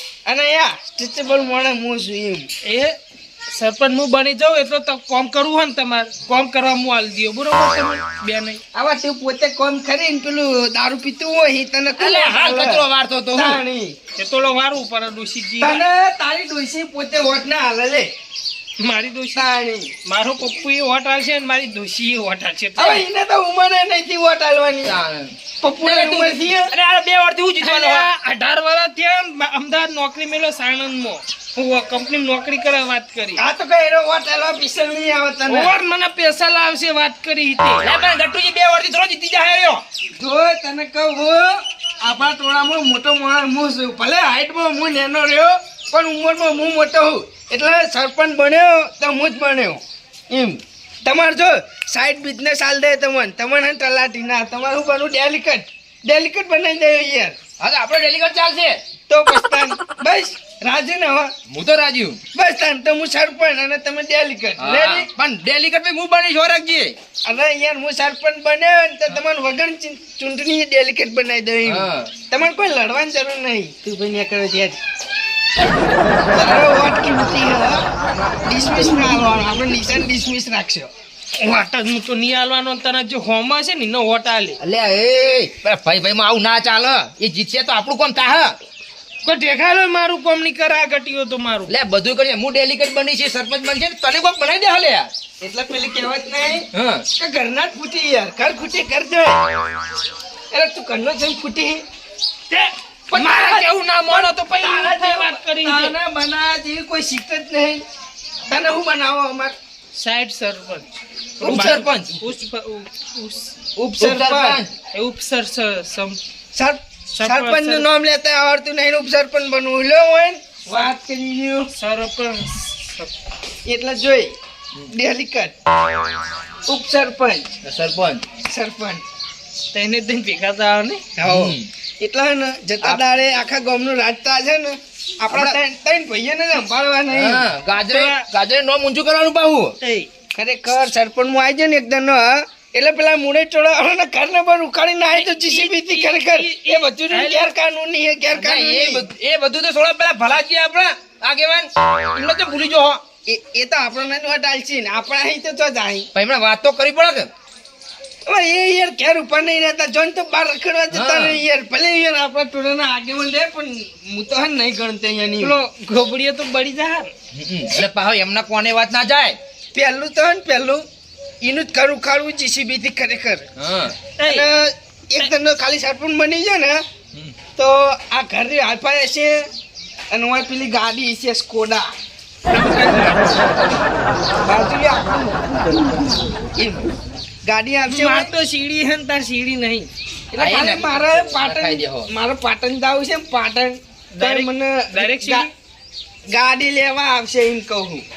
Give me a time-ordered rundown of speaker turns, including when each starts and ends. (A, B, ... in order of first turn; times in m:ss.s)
0:00.2-0:02.4 A
0:02.6-0:03.0 B
0:03.6-0:08.6 B
0:08.7-0:14.0 A
0:12.0-0:13.6 C
0:14.2-0:15.8 B
0:15.6-0:18.1 A
0:18.8-0:19.5 B
0:19.3-0:19.9 A
0:20.0-0:23.0 B
0:22.8-0:25.0 A
0:24.8-0:28.1 C
0:25.6-0:26.7 A
0:27.6-0:33.4 B
0:33.4-0:35.7 A
0:35.5-0:37.9 B
0:37.8-0:39.8 C
0:40.2-0:57.4 A
0:57.6-0:58.8 C
0:59.1-1:01.3 A
1:01.5-1:02.2 C
1:02.3-1:05.1 A
1:04.6-1:06.9 C
1:07.2-1:14.8 A
1:11.6-1:12.1 C
1:16.3-1:17.8 A
1:18.4-1:20.9 A
1:21.4-1:24.6 B
1:24.6-1:28.5 C
1:29.2-1:31.7 B
1:31.7-1:35.1 C
1:35.4-1:39.5 A
1:36.7-1:37.0 C
1:40.5-1:41.8 A
1:42.5-1:46.0 B
1:43.1-1:47.8 A
1:48.5-1:49.5 A
1:49.9-1:53.5 B
1:51.4-1:52.2 C
1:53.8-1:54.6 A
1:54.0-1:54.7 C
1:54.9-1:56.2 B
1:56.5-2:01.7 A
1:57.2-1:57.9 B
2:01.7-2:03.1 B
2:03.6-2:04.3 A
2:04.9-2:05.5 A
2:06.7-2:07.5 A
2:07.6-2:08.2 C
2:08.4-2:09.0 A
2:09.7-2:11.0 B
2:11.2-2:18.0 A
2:11.2-2:11.7 C
2:15.3-2:15.6 C
2:17.1-2:19.7 C
2:19.8-2:20.1 B
2:20.3-2:29.0 A
2:25.1-2:27.5 B
2:28.3-2:33.0 C
2:33.2-2:36.1 A
2:36.1-2:37.3 C
2:38.3-2:45.6 A
2:40.9-2:41.4 C
2:45.4-2:47.1 B
2:47.3-2:49.4 C
2:49.7-2:50.8 A
2:51.4-2:53.5 A
2:53.6-2:54.0 C
2:54.2-2:54.5 B
2:54.2-2:56.8 A
2:57.1-2:57.4 C
2:57.6-2:59.4 A
3:00.1-3:01.8 A
3:02.5-3:03.6 B
3:04.4-3:05.5 A
3:06.6-3:06.9 A
3:07.4-3:08.3 A
3:07.9-3:09.9 B
3:10.3-3:15.5 A
3:10.4-3:12.1 C
3:14.1-3:15.5 B
3:16.3-3:18.0 A